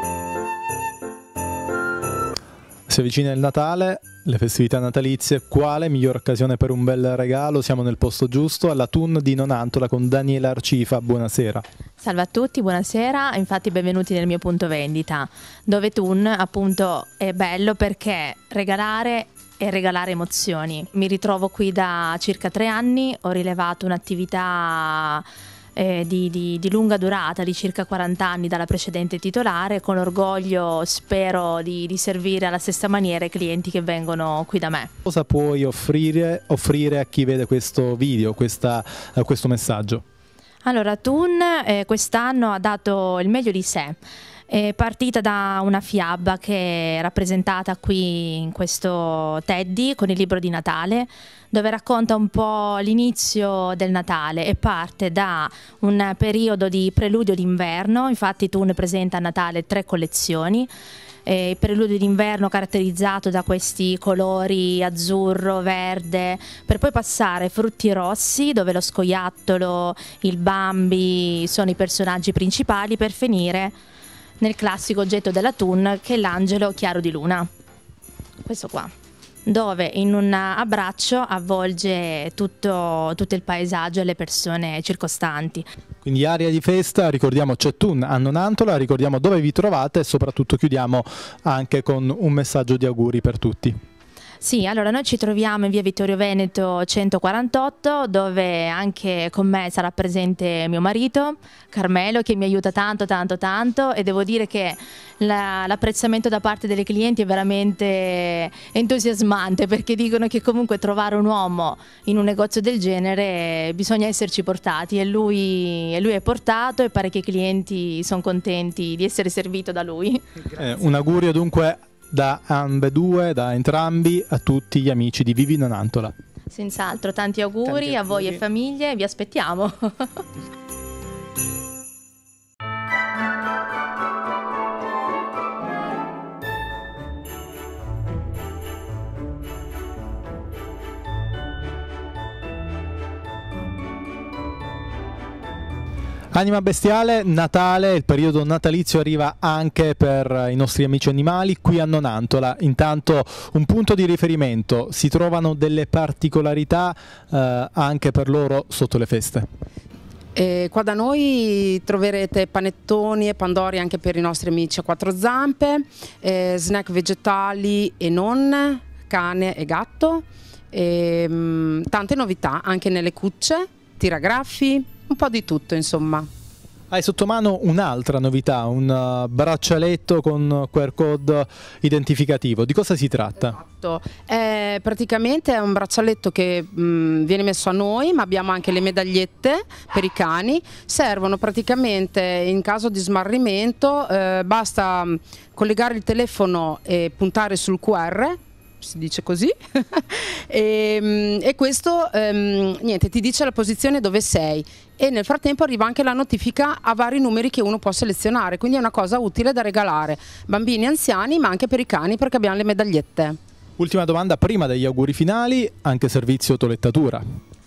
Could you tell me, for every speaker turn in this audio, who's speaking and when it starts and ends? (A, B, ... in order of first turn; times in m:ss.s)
0:02.9-0:11.6 A
0:12.0-0:34.9 B
0:35.0-0:40.0 A
0:40.6-0:44.0 B
0:44.5-1:00.7 B
1:01.2-1:13.8 B
1:14.4-1:17.5 B
1:18.4-1:18.9 B
1:19.5-1:25.7 B
1:26.0-1:33.8 A
1:34.4-2:00.2 B
2:00.6-2:06.1 A
2:06.5-2:10.2 B
2:26.3-2:39.5 A
2:40.4-2:56.3 C
2:56.9-3:03.6 A
3:03.4-3:33.4 C
3:33.8-3:37.2 A